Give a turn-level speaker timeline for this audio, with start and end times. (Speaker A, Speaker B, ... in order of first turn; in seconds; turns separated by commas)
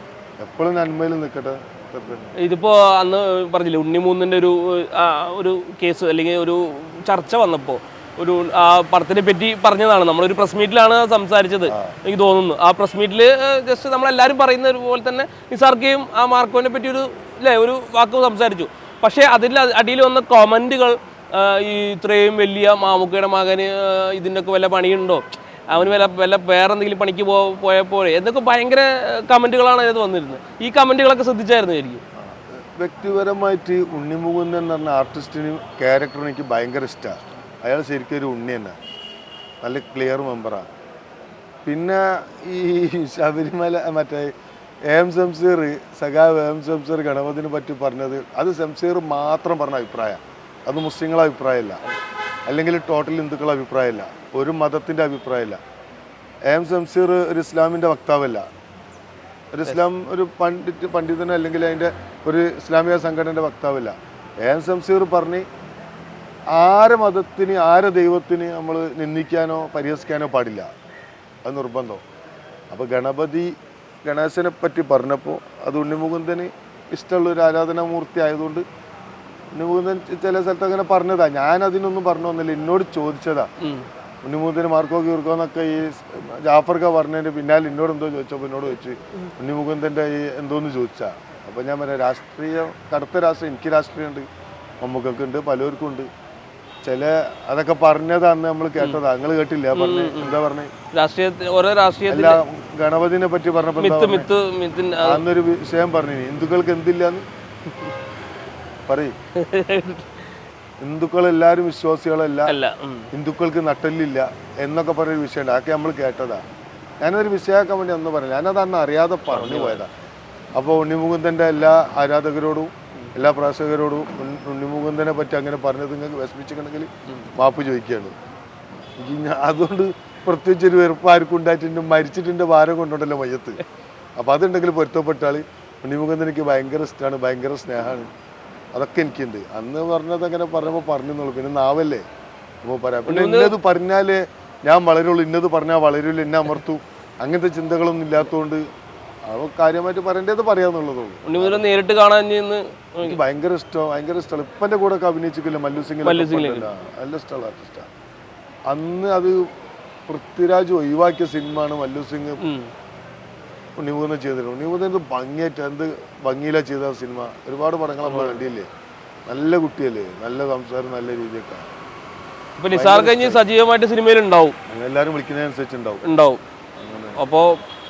Speaker A: 0.4-2.4, Speaker B: 2.3-32.0, Speaker A: 11.7-12.0, Speaker A: 32.2-38.8, Speaker A: 39.6-40.7, Speaker A: 41.6-44.3, Speaker A: 44.9-51.8, Speaker A: 52.5-55.6, Speaker A: 56.5-58.5, Speaker A: 59.5-65.4, Speaker A: 66.5-70.7, Speaker A: 71.4-72.0, Speaker A: 72.7-78.6, Speaker A: 79.5-83.5, Speaker B: 83.6-83.9, Speaker A: 84.2-94.3, Speaker A: 94.8-96.1, Speaker A: 96.8-100.7, Speaker B: 99.7-100.4, Speaker B: 100.9-102.4, Speaker A: 102.1-104.3, Speaker B: 103.8-105.2, Speaker A: 105.0-107.2, Speaker A: 108.9-109.1, Speaker B: 109.3-110.2, Speaker A: 110.8-112.5, Speaker B: 112.5-113.1, Speaker A: 113.1-116.4, Speaker A: 117.0-119.9, Speaker B: 119.3-119.8, Speaker A: 120.5-128.1, Speaker A: 129.0-133.6, Speaker A: 134.2-138.1, Speaker A: 138.7-142.0, Speaker A: 142.6-148.6, Speaker B: 143.1-143.5, Speaker A: 149.3-151.7, Speaker B: 151.2-153.2, Speaker A: 153.0-157.9, Speaker B: 156.0-156.7, Speaker A: 158.7-159.5, Speaker A: 160.1-162.4, Speaker B: 162.4-162.7, Speaker A: 163.8-168.7, Speaker B: 168.0-168.5, Speaker A: 169.3-171.7, Speaker B: 172.6-174.6, Speaker A: 172.7-173.4, Speaker A: 174.7-176.0, Speaker B: 176.0-176.4, Speaker A: 176.8-177.2, Speaker B: 177.2-177.6